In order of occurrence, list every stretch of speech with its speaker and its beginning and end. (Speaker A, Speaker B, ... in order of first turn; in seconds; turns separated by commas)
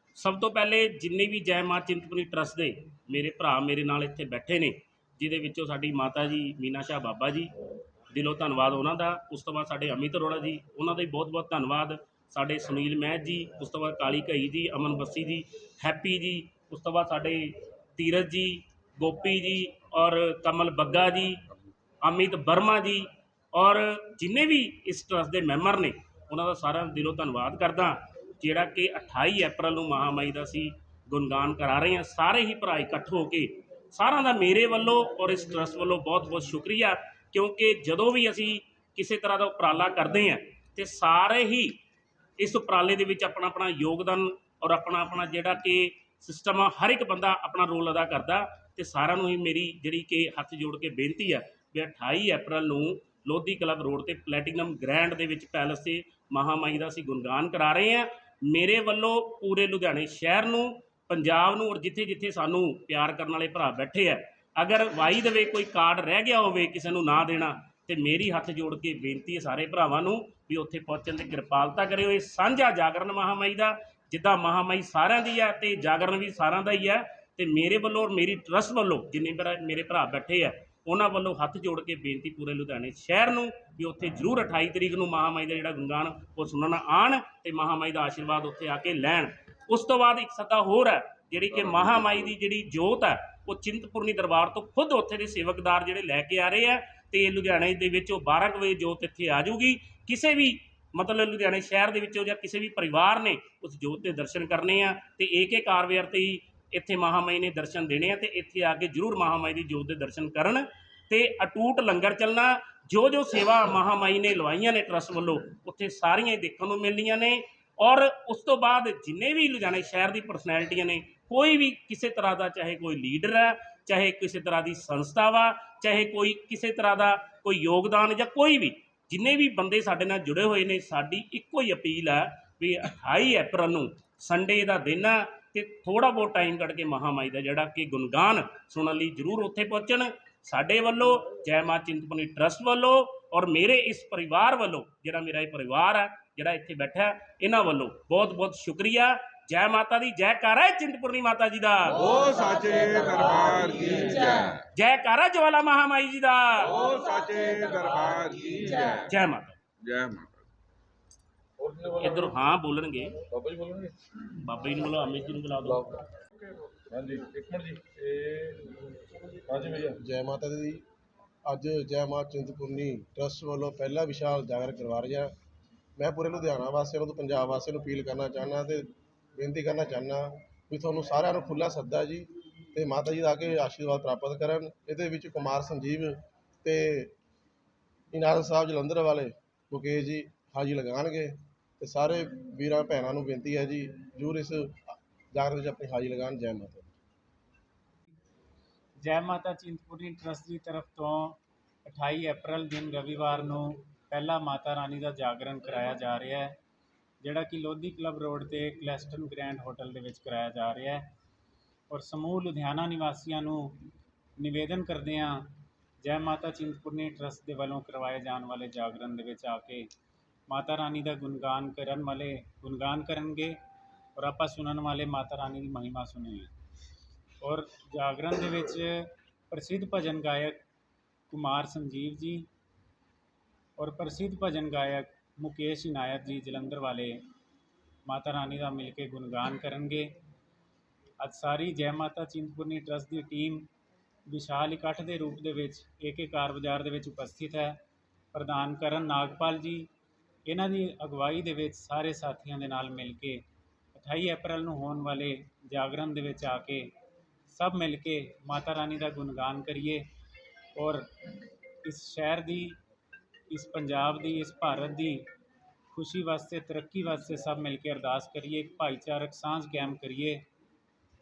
Speaker A: 0.2-7.5, Speaker A: 8.1-21.4, Speaker A: 22.0-41.8, Speaker A: 42.4-152.1, Speaker B: 152.0-154.6, Speaker A: 154.7-156.8, Speaker B: 156.6-159.1, Speaker A: 159.0-159.6, Speaker B: 159.9-160.3, Speaker C: 161.6-162.3, Speaker A: 162.0-163.2, Speaker C: 163.3-164.0, Speaker A: 164.4-166.0, Speaker C: 166.9-168.7, Speaker C: 169.5-170.0, Speaker D: 170.0-170.8, Speaker D: 171.5-175.3, Speaker D: 176.0-187.1, Speaker D: 188.1-196.9, Speaker E: 199.0-206.6, Speaker E: 207.2-211.1, Speaker E: 211.9-213.8, Speaker E: 214.4-215.5, Speaker E: 216.0-219.9, Speaker E: 220.5-223.6, Speaker E: 224.2-226.5, Speaker E: 227.4-230.6, Speaker E: 231.3-232.5, Speaker E: 233.8-237.2, Speaker E: 238.1-240.1, Speaker E: 241.2-243.7, Speaker E: 244.3-247.8, Speaker E: 248.3-249.9, Speaker E: 250.5-253.4, Speaker E: 253.9-256.9, Speaker E: 257.5-260.1, Speaker E: 260.8-261.1, Speaker E: 261.8-262.8, Speaker E: 263.5-265.2, Speaker E: 265.9-270.4